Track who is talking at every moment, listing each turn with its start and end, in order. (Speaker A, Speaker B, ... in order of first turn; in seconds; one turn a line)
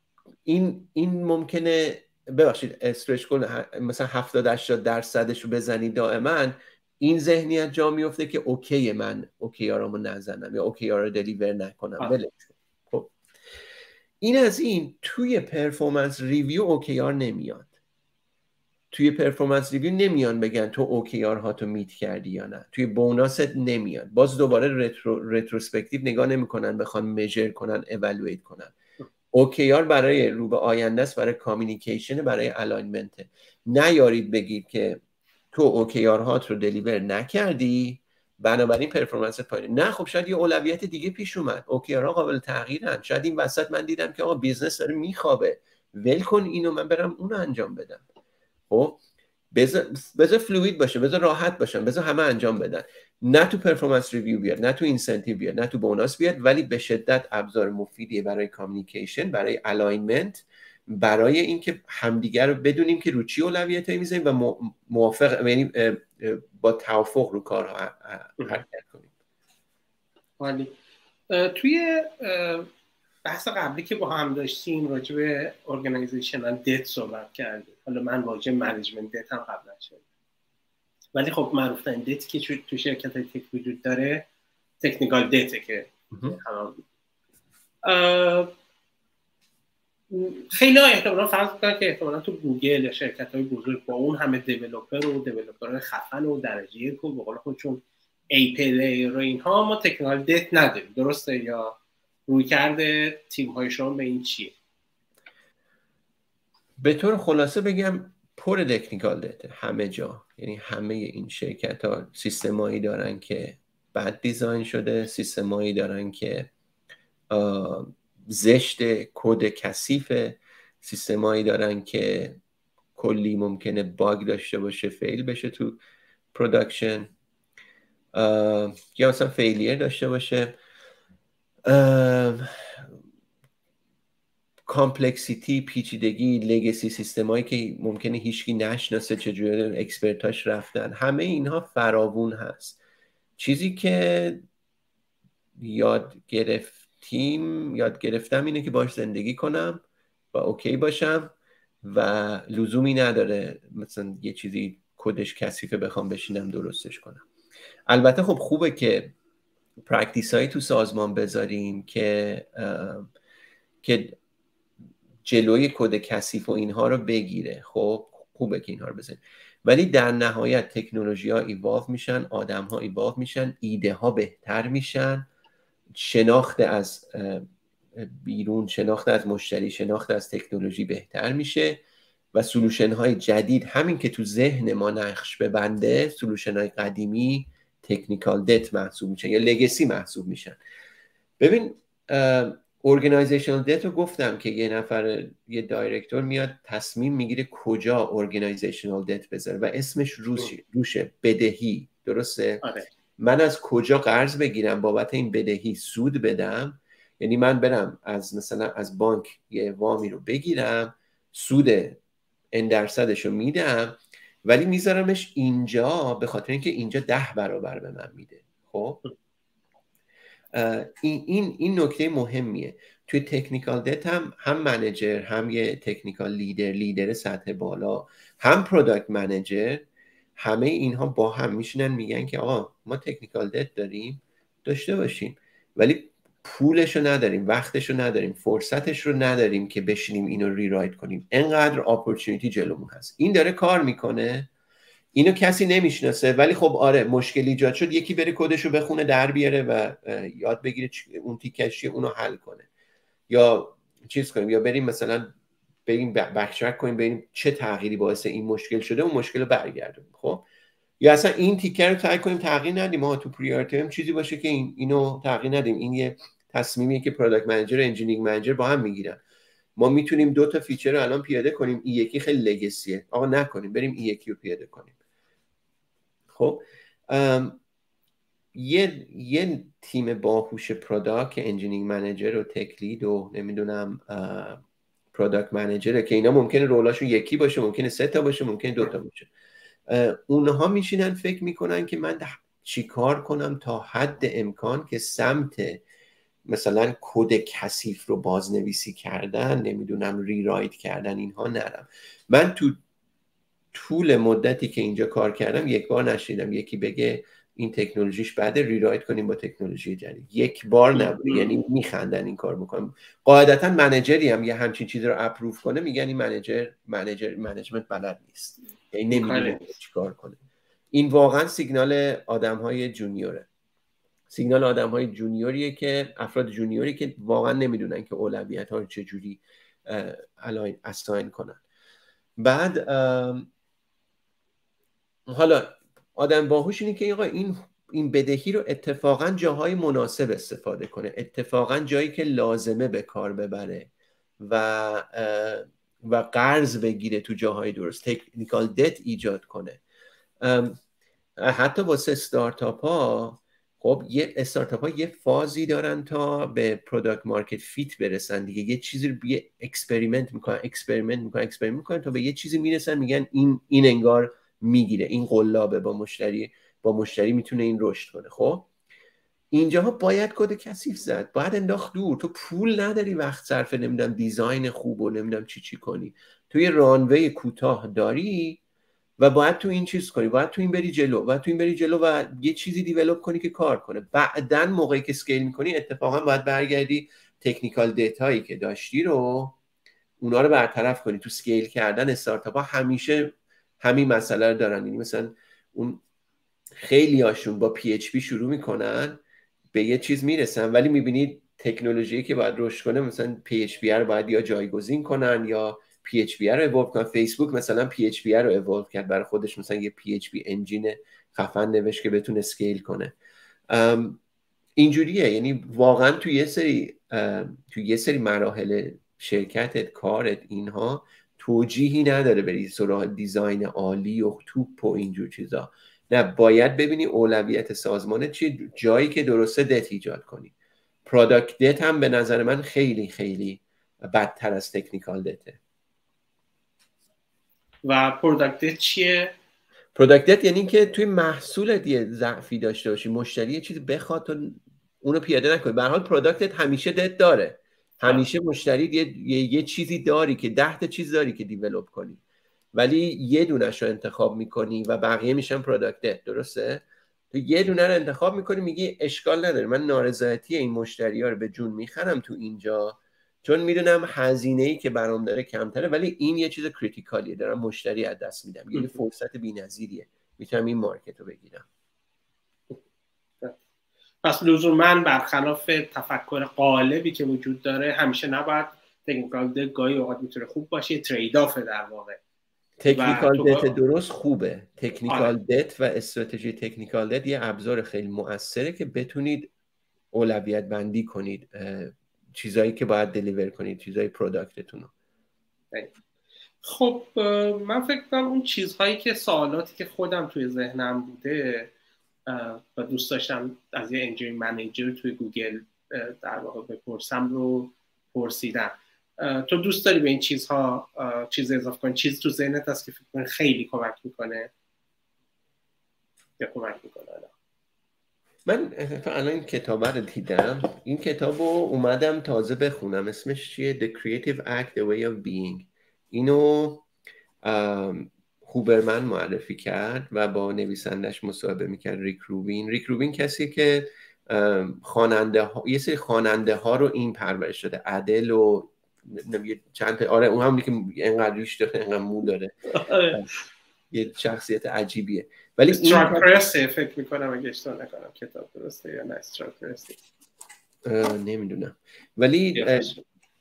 Speaker A: 0.4-13.1
Speaker A: 14.2-17.7
Speaker A: 18.9-28.7
Speaker A: 29.3-35.0
Speaker A: 35.5-48.0
Speaker A: 48.7-49.0
Speaker A: 49.5-69.1
Speaker B: 70.4-70.7
Speaker B: 71.3-72.7
Speaker B: 73.2-80.0
Speaker B: 81.1-84.2
Speaker B: 84.8-86.8
Speaker B: 87.8-88.5
Speaker B: 90.1-104.5
Speaker A: 106.8-116.5
Speaker A: 117.3-122.4
Speaker A: 122.9-125.8
Speaker A: 126.3-127.1
Speaker A: 128.1-130.6
Speaker A: 131.7-132.9
Speaker A: 134.7-142.8
Speaker A: 143.4-144.4
Speaker A: 145.6-157.2
Speaker A: 157.9-159.1
Speaker A: 159.8-163.1
Speaker A: 163.8-164.2
Speaker A: 165.2-175.3
Speaker A: 175.9-181.8
Speaker A: 182.3-190.6
Speaker A: 191.4-202.6
Speaker B: 202.6-202.9
Speaker A: 203.2-212.0
Speaker A: 212.5-219.0
Speaker A: 220.5-229.8
Speaker A: 230.4-244.5
Speaker A: 245.1-252.7
Speaker A: 253.3-255.3
Speaker A: 255.9-260.4
Speaker A: 261.0-269.2
Speaker A: 269.8-274.9
Speaker A: 276.3-277.6
Speaker A: 278.5-284.6
Speaker A: 285.1-289.3
Speaker A: 289.9-295.8
Speaker A: 296.4-302.8
Speaker A: 303.7-320.4
Speaker B: 310.9-311.5
Speaker B: 319.1-319.7
Speaker A: 320.9-323.5
Speaker A: 324.3-331.6
Speaker A: 332.4-333.5
Speaker A: 335.3-343.9
Speaker A: 344.4-349.8
Speaker A: 350.4-350.8
Speaker A: 351.4-368.7
Speaker A: 369.5-378.6
Speaker A: 379.2-389.6
Speaker A: 390.2-396.0
Speaker A: 396.8-399.2
Speaker A: 399.7-413.1
Speaker A: 413.7-414.2
Speaker A: 414.8-430.5
Speaker A: 431.1-435.6
Speaker B: 437.8-439.3
Speaker A: 439.9-452.2
Speaker A: 452.7-471.7
Speaker B: 474.2-482.2
Speaker A: 482.8-489.5
Speaker B: 482.9-483.7
Speaker A: 490.1-494.9
Speaker B: 496.6-501.7
Speaker B: 502.3-514.5
Speaker B: 516.4-517.3
Speaker A: 518.5-526.9
Speaker A: 527.4-542.5
Speaker B: 542.7-543.2
Speaker A: 543.9-546.3
Speaker B: 545.7-550.0
Speaker A: 550.8-552.9
Speaker B: 552.5-553.0